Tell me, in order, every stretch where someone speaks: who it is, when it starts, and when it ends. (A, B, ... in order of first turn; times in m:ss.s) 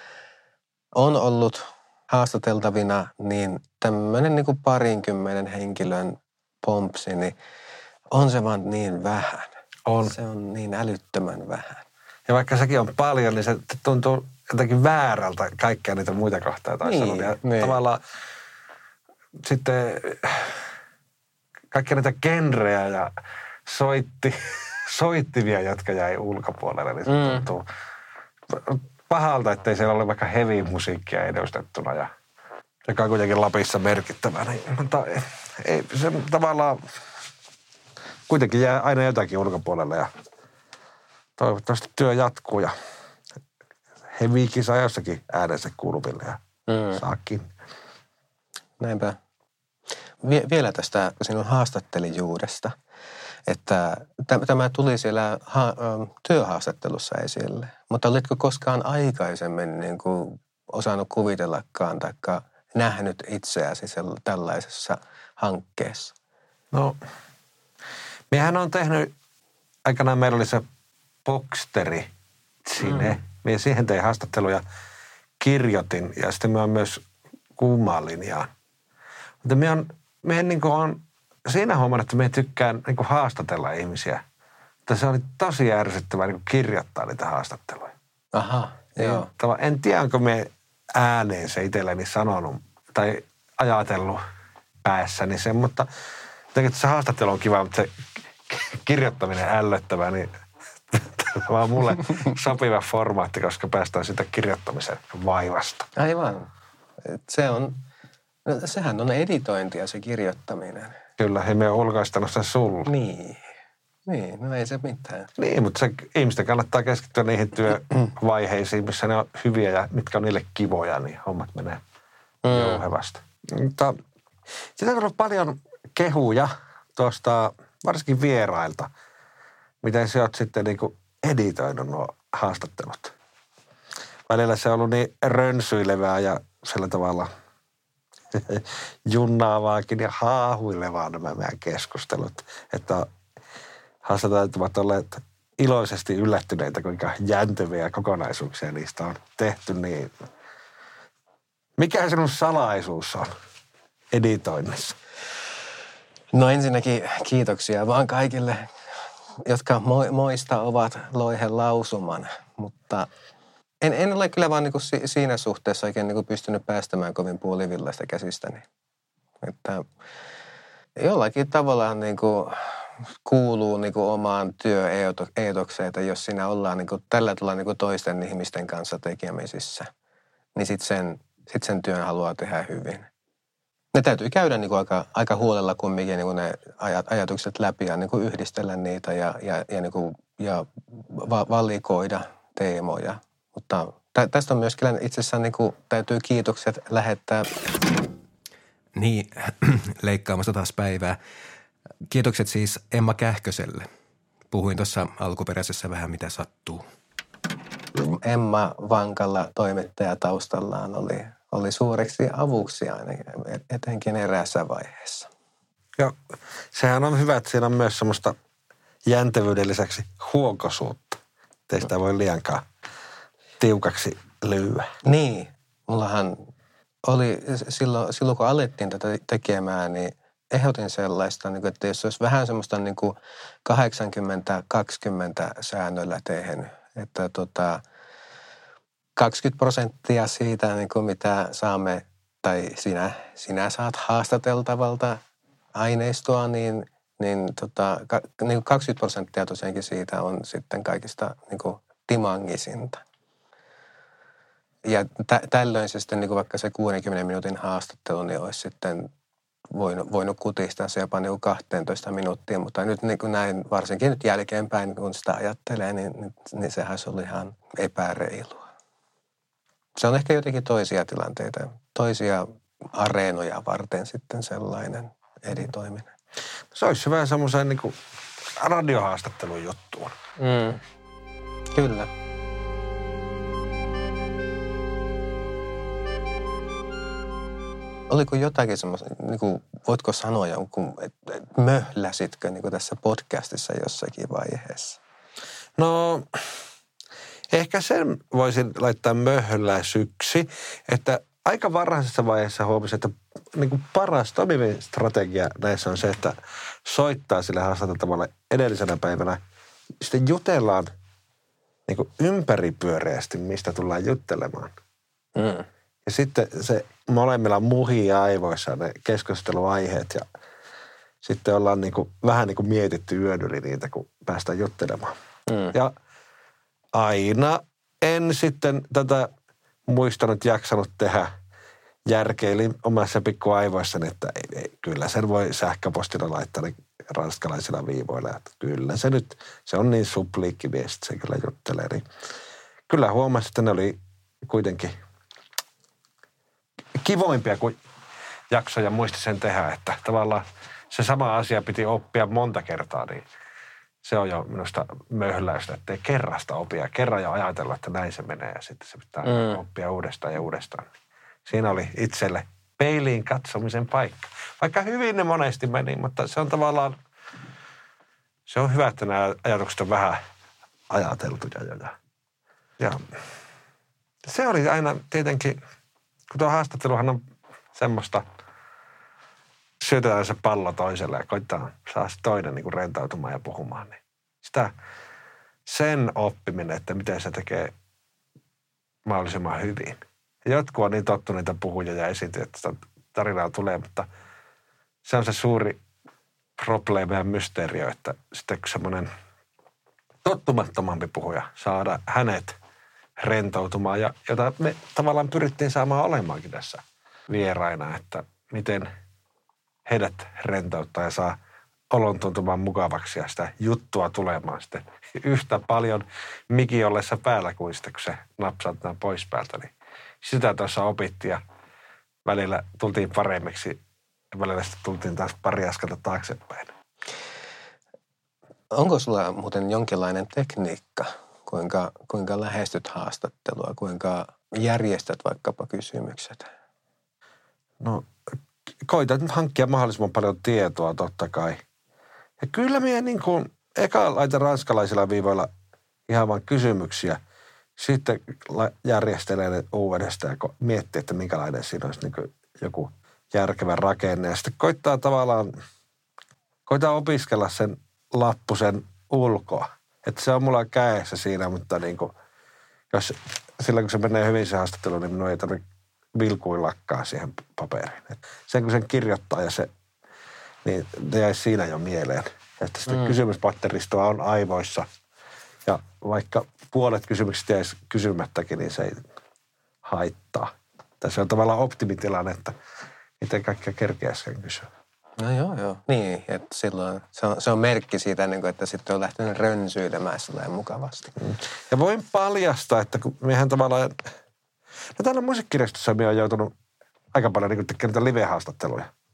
0:00.9-0:07.3 A
0:08.1-0:11.8 A
0:09.8-0:10.1 B
0:12.3-0:18.0 B
0:16.8-0:17.8 A
0:19.4-0:20.6 B
0:21.7-0:23.1 B
0:23.6-0:27.6 B
0:27.0-0:27.5 A
0:28.5-0:32.1 B
0:32.8-0:36.8 B
0:38.3-0:40.1 B
0:41.4-0:42.7 B
0:44.1-0:46.4 B
0:46.7-0:47.0 A
0:47.0-0:47.5 B
0:48.8-0:49.2 A
0:50.2-0:52.8 A
0:53.5-1:06.1 A
1:06.7-1:07.0 B
1:08.3-1:09.1 B
1:09.8-1:10.6 B
1:11.2-1:12.1 B
1:12.6-1:14.6 B
1:12.8-1:13.2 A
1:15.4-1:17.0 B
1:17.6-1:18.5 B
1:19.4-1:24.2 B
1:24.8-1:27.9 B
1:28.3-1:29.3 A
1:29.0-1:34.2 B
1:34.8-1:35.9 B
1:36.5-1:40.3 B
1:40.9-1:45.9 B
1:46.0-1:46.5 A
1:47.0-1:47.8 A
1:48.4-1:51.0 A
1:51.2-1:52.9 B
1:52.8-1:53.5 A
1:54.0-1:55.3 A
1:55.4-2:01.8 B
2:02.4-2:02.8 A
2:02.5-2:04.0 B
2:04.8-2:08.9 B
2:09.8-2:13.1 B
2:14.3-2:17.3 B
2:18.3-2:23.1 B
2:24.0-2:30.1 B
2:31.8-2:33.3 B
2:34.1-2:35.0 B
2:36.3-2:38.7 A
2:39.4-2:43.1 A
2:43.8-2:48.6 A
2:49.4-2:49.8 A
2:51.0-2:59.9 A
3:00.5-3:03.1 A
3:03.9-3:17.5 A
3:18.9-3:21.2 C
3:22.1-3:23.9 C
3:24.5-3:26.8 C
3:28.0-3:35.3 A
3:36.7-3:38.3 B
3:39.0-3:42.6 B
3:43.6-3:44.9 B
3:45.0-3:46.5 A
3:47.1-3:57.8 A
3:59.2-4:05.2 A
4:05.7-4:13.0 A
4:14.8-4:19.1 A
4:19.7-4:28.7 A
4:30.0-4:36.1 A
4:36.7-4:38.0 B
4:38.6-4:40.2 B
4:40.4-4:40.8 A
4:41.7-4:42.1 A
4:48.1-4:55.0 A
4:55.8-4:56.4 B
4:57.5-5:09.4 B
5:10.0-5:10.9 B
5:11.9-5:14.7 B
5:15.4-5:15.7 A
5:16.0-5:20.2 B
5:21.2-5:25.1 B
5:25.5-5:25.7 A
5:26.9-5:29.3 B
5:29.9-5:31.3 B
5:32.0-5:42.0 B
5:42.9-5:44.9 B
5:47.0-5:47.8 B
5:48.5-5:53.3 B
5:54.0-6:00.9 B
5:59.2-5:59.6 A
6:01.4-6:07.0 B
6:08.5-6:10.2 B
6:10.9-6:11.9 B
6:12.8-6:13.0 B
6:14.2-6:15.6 B
6:16.3-6:17.2 B
6:17.7-6:18.2 B
6:19.8-6:24.7 B
6:25.6-6:27.7 B
6:29.0-6:34.1 B
6:35.0-6:35.8 B
6:36.6-6:39.1 B
6:40.2-6:42.6 B
6:43.2-6:48.9 B
6:49.8-6:51.4 B
6:51.9-7:01.4 B
7:02.2-7:03.8 B
7:04.3-7:06.7 B
7:08.7-7:16.5 A
7:17.8-7:18.1 B
7:18.8-7:21.6 B
7:22.4-7:25.5 B
7:26.1-7:27.2 B
7:27.8-7:35.5 B
7:36.6-7:42.1 B
7:42.9-7:45.6 B
7:46.1-7:49.7 B
7:50.6-7:54.9 B
7:52.9-7:53.2 A
7:55.6-7:59.0 B
7:59.8-8:02.5 B
8:03.2-8:04.7 B
8:05.2-8:11.1 A
8:11.2-8:14.0 B
8:14.9-8:16.5 B
8:17.1-8:18.9 B